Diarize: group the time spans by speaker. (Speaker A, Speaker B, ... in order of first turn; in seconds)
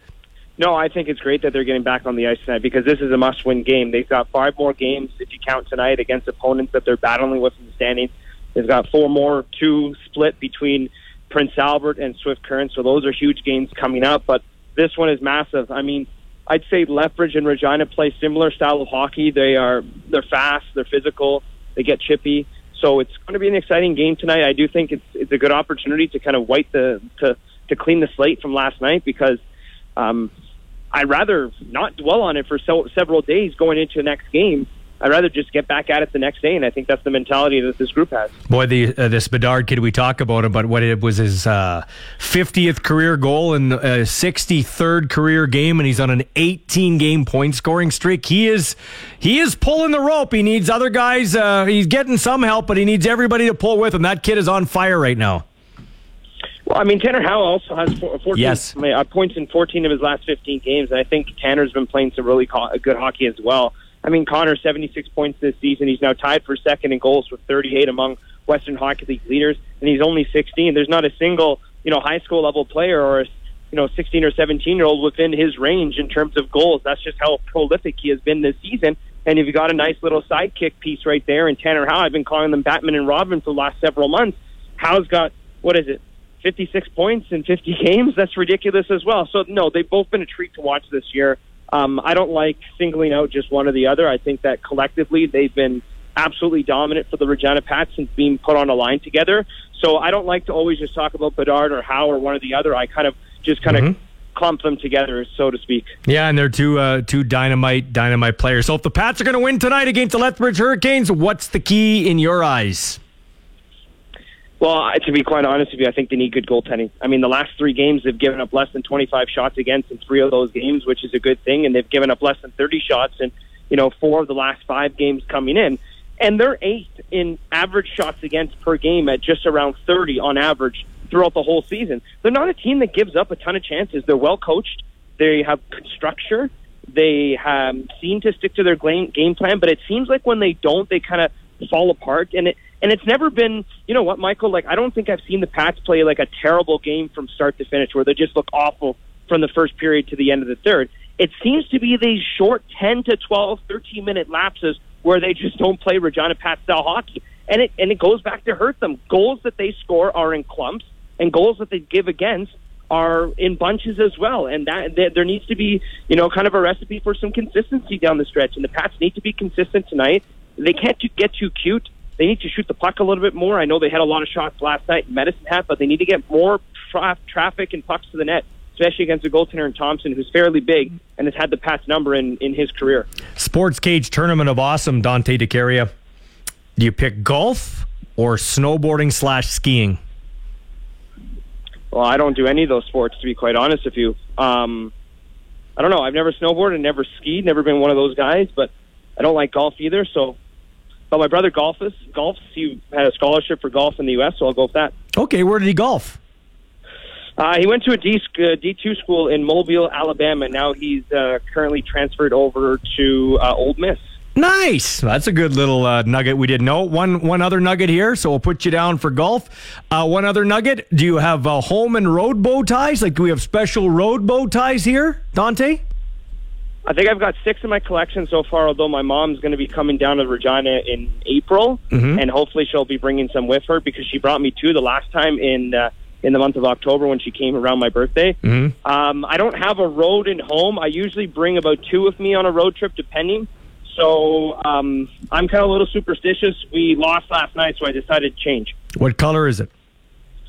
Speaker A: 0.6-29.4, 30.0-30.3, 30.9-38.3, 56.7-105.9, 114.6-183.1, 191.9-194.9, 195.8-200.3, 201.1-204.9, 207.4-214.0, 226.8-248.7
Speaker B: 38.5-55.4, 58.4-58.7, 103.6-103.9, 106.1-113.0, 183.4-185.9, 186.8-190.0, 205.2-206.2, 214.3-225.8, 231.9-232.2, 238.4-238.7, 248.9-249.7